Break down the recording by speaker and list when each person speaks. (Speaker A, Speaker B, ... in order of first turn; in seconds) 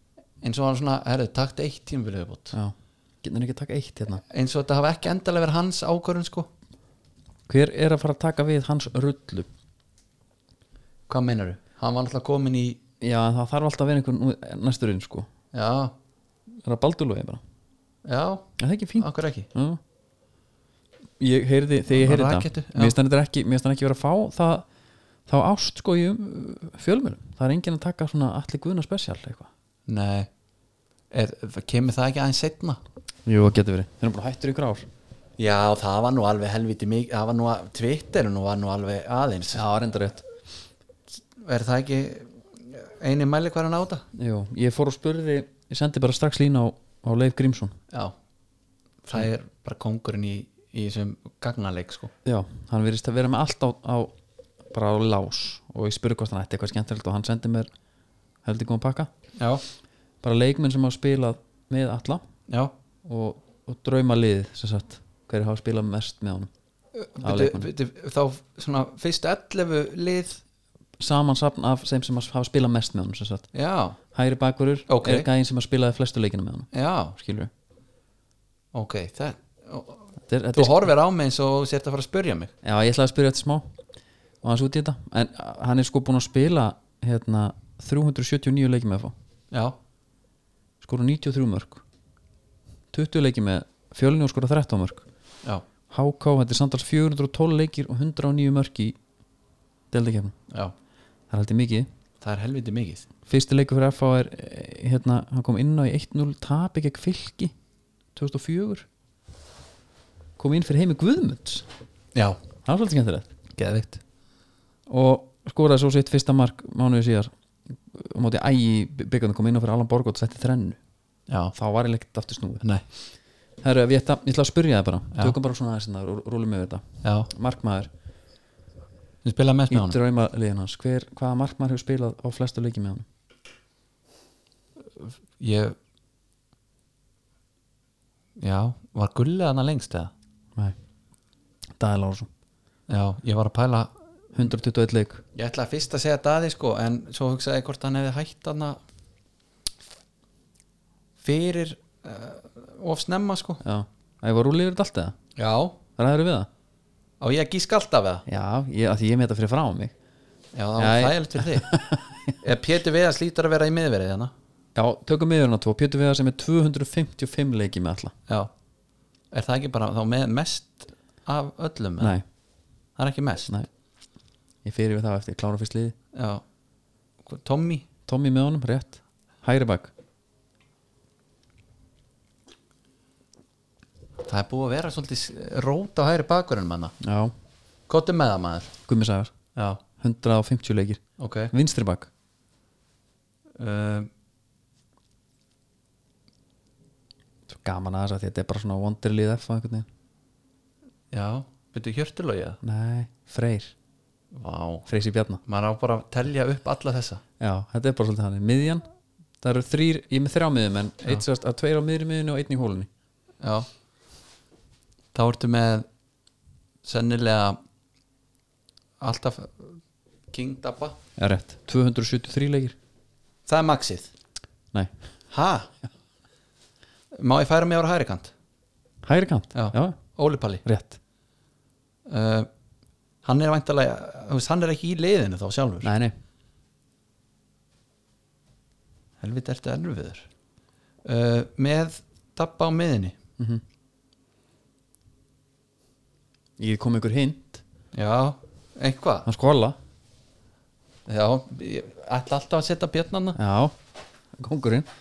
Speaker A: 0.4-2.5, 4.2-6.5, 11.1-12.8, 15.5-15.9, 18.0-19.5, 21.9-22.9, 29.9-30.3, 31.1-32.8, 35.4-39.6, 41.4-44.0, 49.0-52.1, 59.4-59.6, 67.0-70.4, 73.5-74.0, 74.9-75.3, 76.7-77.2, 78.7-82.5, 102.2-103.0, 113.6-114.0, 121.3-121.5, 127.0-127.3, 129.2-130.0, 135.0-135.8, 138.4-140.1, 142.9-143.9, 145.3-148.8, 151.2-153.6, 155.3-155.8, 157.2-158.2, 160.5-161.8, 162.4-164.3, 169.3-172.2, 173.0-173.5, 176.1-176.4, 177.2-177.9, 184.2-186.9, 187.9-188.7, 189.5-189.8, 191.2-191.5, 193.6-194.1, 201.1-202.6, 204.3-204.9, 205.4-207.2, 213.4-213.7, 215.1-215.8, 216.8-217.6, 219.0-219.8, 220.3-221.0, 223.5-224.1, 225.3-225.7, 227.1-228.3, 229.5-230.6, 232.1-232.5, 233.2-235.9, 239.2-240.3, 241.0-243.2, 247.9-249.3, 251.1-253.4
Speaker B: 2.5-4.2, 7.5-9.5, 13.0-15.3, 16.6-17.4, 18.6-19.8, 21.2-24.6, 25.3-29.5, 33.2-34.9, 39.5-40.2, 44.1-47.7, 52.2-54.1, 54.7-57.7, 58.4-59.1, 60.2-62.2, 63.0-66.5, 67.2-67.7, 71.0-73.5, 74.1-77.5, 80.2-80.9, 82.6-83.7, 84.4-89.1, 90.8-91.8, 92.9-95.0, 95.9-99.0, 99.9-100.3, 101.3-101.9, 103.2-107.5, 108.1-108.8, 110.4-111.7, 112.6-113.3, 114.9-120.8, 121.5-122.6, 123.6-127.9, 129.7-133.1, 141.8-142.3, 144.3-145.2, 153.6-155.2, 156.0-156.5, 158.3-159.9, 160.8-162.3, 164.7-168.1, 174.6-175.9, 178.1-179.9, 187.0-187.3, 188.9-189.3, 190.0-191.0, 191.5-192.1, 197.5-199.9, 202.6-203.7, 204.9-205.4, 207.4-208.8, 209.4-212.9, 221.2-222.7, 229.0-230.0, 230.6-231.0, 235.8-236.1, 246.6-247.6, 249.2-249.8, 253.3-253.7, 254.3-254.9